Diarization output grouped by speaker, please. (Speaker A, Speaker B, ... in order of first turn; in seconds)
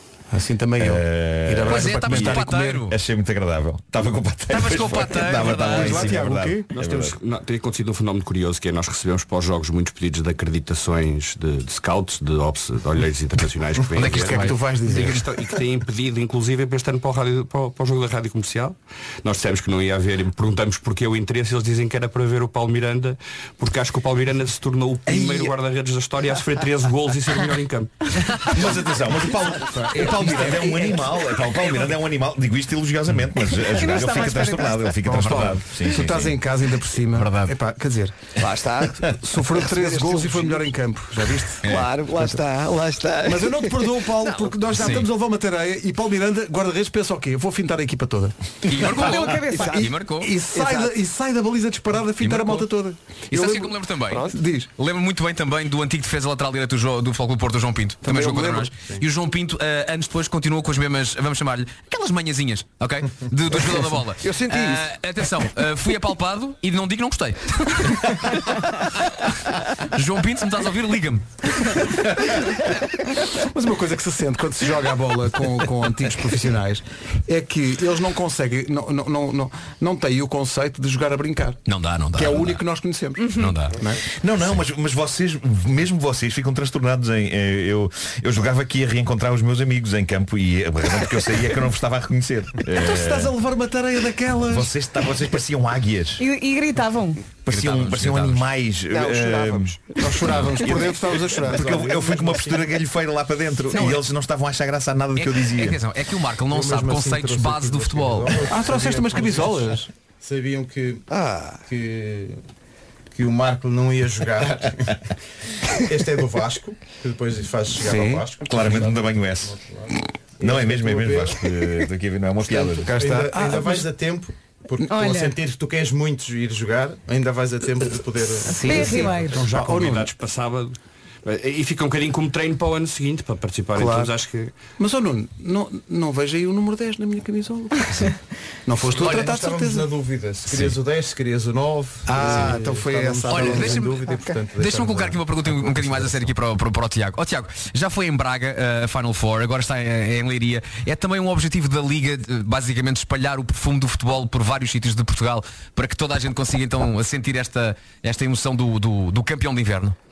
Speaker A: 0.3-2.9, 5.3-6.7, 14.0-15.2, 25.1-25.5, 29.4-31.8, 34.8-38.2, 39.0-42.4, 43.2-54.7, 58.0-58.7, 63.5-64.9, 71.7-72.4, 73.3-81.6, 82.1-84.0, 92.7-94.8, 100.0-102.0, 108.5-109.9, 117.8-118.3, 122.4-123.9, 128.4-130.1, 133.8-134.2, 134.8-139.9, 142.1-144.1
Speaker B: 0.8-7.1, 28.5-36.4, 84.1-93.3, 94.5-96.2, 97.5-105.8, 118.4-119.6, 120.4-123.0
Speaker C: 1.7-3.0, 4.5-6.2, 14.0-14.6, 35.3-35.6, 37.1-37.5, 41.6-41.9, 44.8-45.1, 48.6-50.4, 52.2-52.7, 53.3-69.3, 69.9-71.5, 81.7-82.6, 83.3-83.8, 97.5-98.5, 105.2-108.4, 143.3-160.0
Speaker D: 6.7-28.6, 129.4-134.6
Speaker E: 33.7-34.9, 49.0-49.8, 83.2-83.5, 96.2-97.2, 103.7-104.0, 124.8-125.4, 128.5-129.4
Speaker F: 38.4-40.6, 41.6-44.6, 50.5-50.9, 98.9-99.8, 111.1-111.6
Speaker G: 101.4-102.8, 106.5-111.0, 111.7-112.4, 113.1-115.0, 115.8-121.4, 122.9-129.4, 138.9-145.3